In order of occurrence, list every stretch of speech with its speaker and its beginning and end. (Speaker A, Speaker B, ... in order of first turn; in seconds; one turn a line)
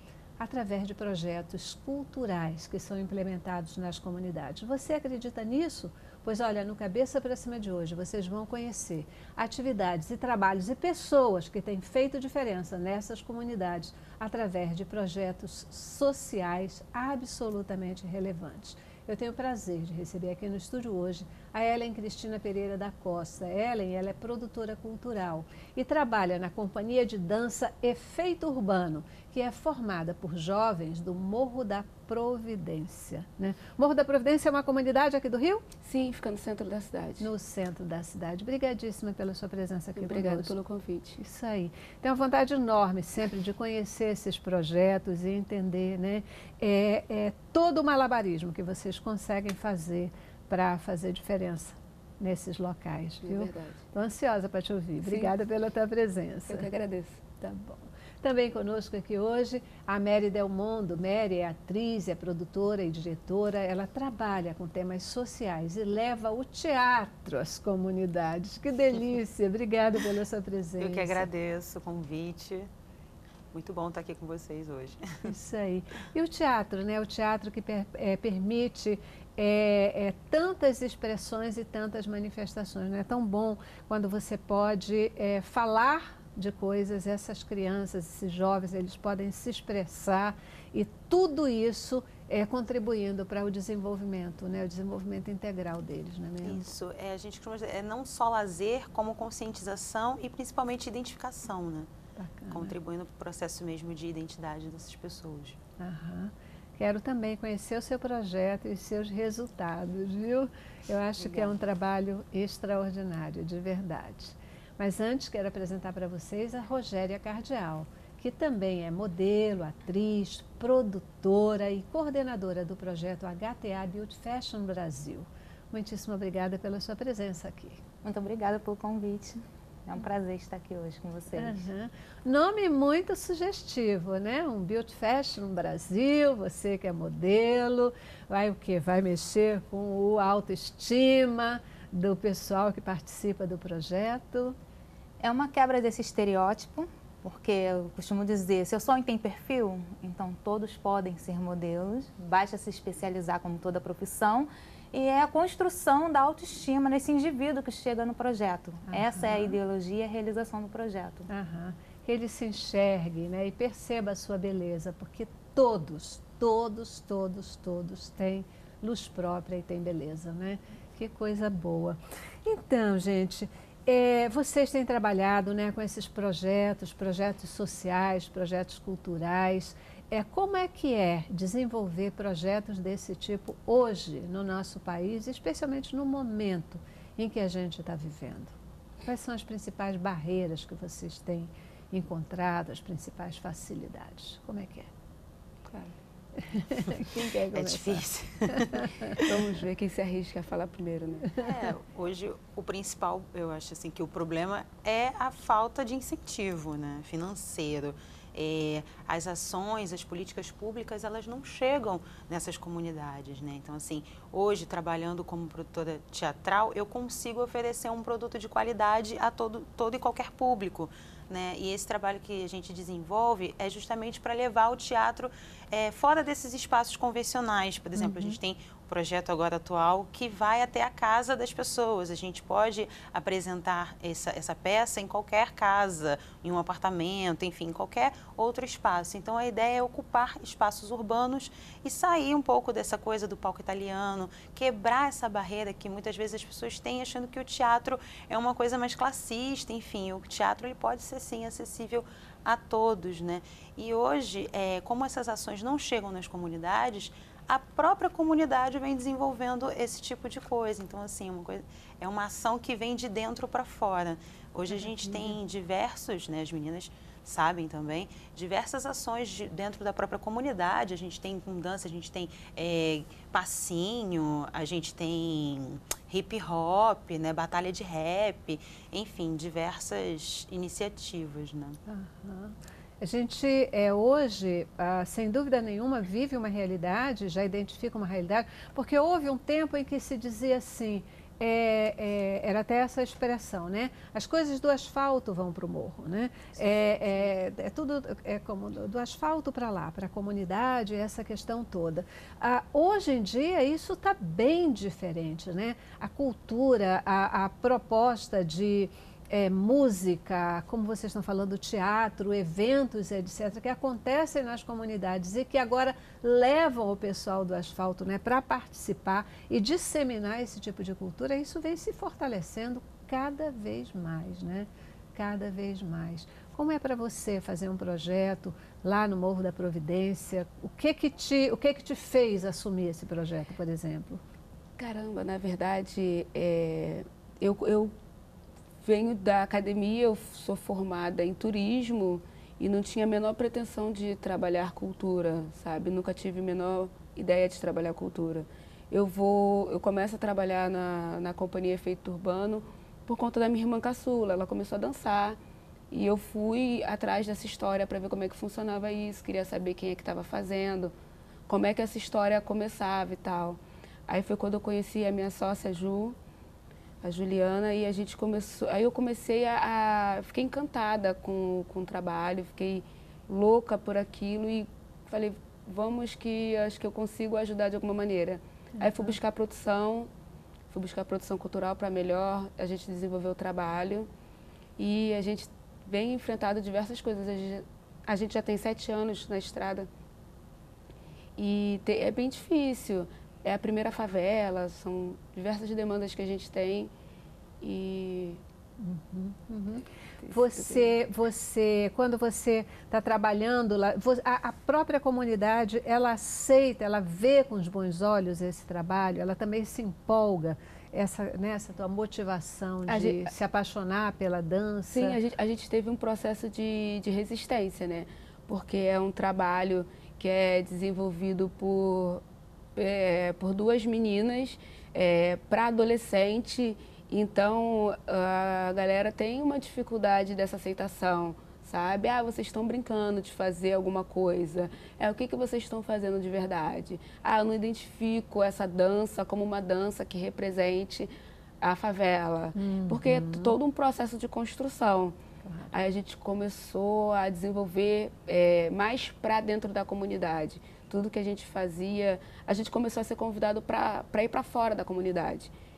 Speaker A: 0.4-35.6
Speaker B: 35.8-37.3
Speaker A: 37.2-40.5
Speaker B: 40.0-41.2
Speaker A: 41.2-56.7
Speaker B: 53.2-53.8
Speaker B: 55.0-55.3
Speaker B: 56.5-57.2
Speaker A: 57.4-71.3
Speaker C: 70.8-72.7
Speaker C: 73.5-75.3
Speaker A: 75.2-96.7
Speaker C: 96.4-101.9
Speaker A: 102.2-102.7
Speaker C: 102.5-105.6
Speaker A: 105.8-127.8
Speaker D: 128.0-131.6
Speaker A: 131.3-144.6
Speaker D: 145.2-161.3
Speaker A: 158.9-159.6
Speaker A: 161.3-194.9
Speaker A: 196.4-199.2
Speaker C: 197.5-199.4
Speaker B: 199.3-201.3
Speaker C: 201.3-281.8
Speaker A: 227.9-228.4
Speaker A: 264.7-265.4
Speaker A: 281.9-334.2
Speaker B: 334.8-337.9
Speaker B: 338.8-355.4
Speaker B: 355.9-360.9
Speaker B: 361.5-366.2
Speaker B: 367.0-380.1
Speaker A: 378.8-379.1
Speaker B: 380.7-384.1
Speaker B: 384.8-389.9
Speaker B: 391.4-396.9
Speaker B: 397.6-398.4
Speaker A: 398.8-415.2
Speaker B: 400.2-400.9
Speaker B: 412.9-413.3
Speaker B: 414.9-422.2
Speaker B: 422.8-445.2
Speaker A: 442.6-443.5
Speaker B: 445.7-455.5